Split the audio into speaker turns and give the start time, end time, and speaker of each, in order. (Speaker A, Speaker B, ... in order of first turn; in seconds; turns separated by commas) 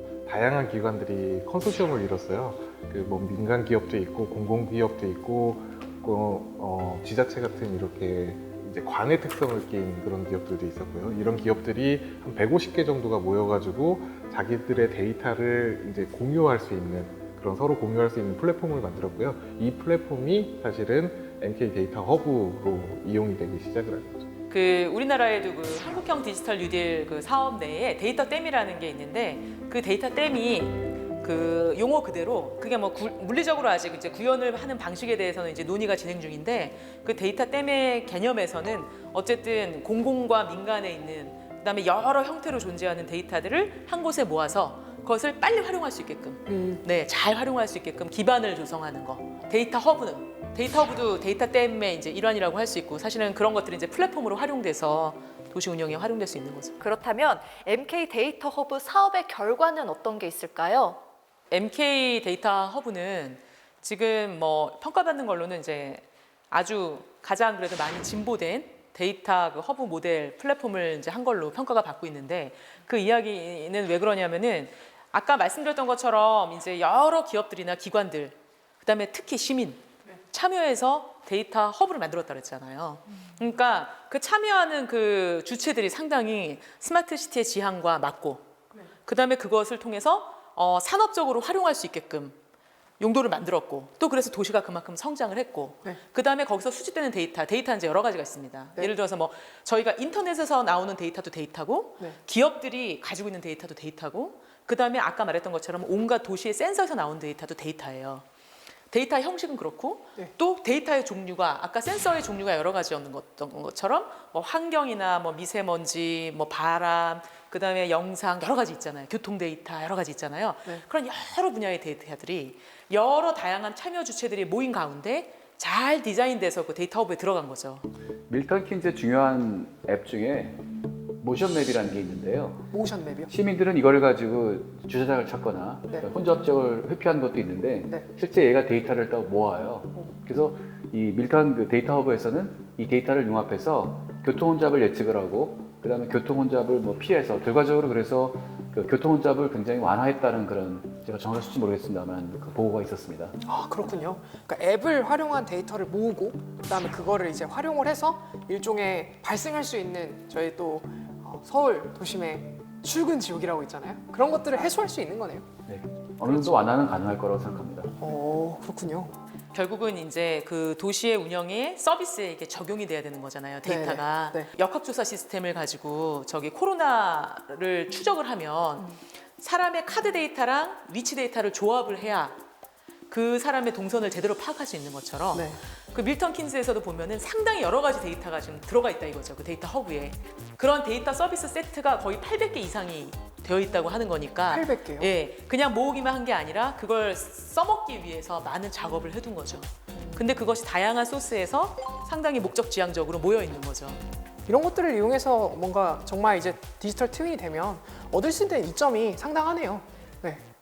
Speaker A: 0.3-24.3, Speaker B: 24.5-56.8, Speaker C: 46.5-46.8, Speaker D: 56.8-61.0, Speaker B: 61.5-88.5, Speaker B: 89.0-92.4, Speaker B: 93.0-108.2, Speaker B: 108.9-127.9, Speaker E: 128.3-130.6, Speaker E: 131.2-132.7, Speaker C: 132.7-133.3, Speaker E: 133.3-153.3, Speaker C: 137.8-138.1, Speaker C: 153.4-165.5, Speaker E: 165.7-167.9, Speaker C: 166.2-166.6, Speaker C: 168.0-169.1, Speaker B: 169.5-182.4, Speaker C: 173.6-174.5, Speaker B: 183.1-204.0, Speaker C: 185.3-185.6, Speaker C: 194.5-195.1, Speaker C: 199.9-200.3, Speaker C: 204.5-210.4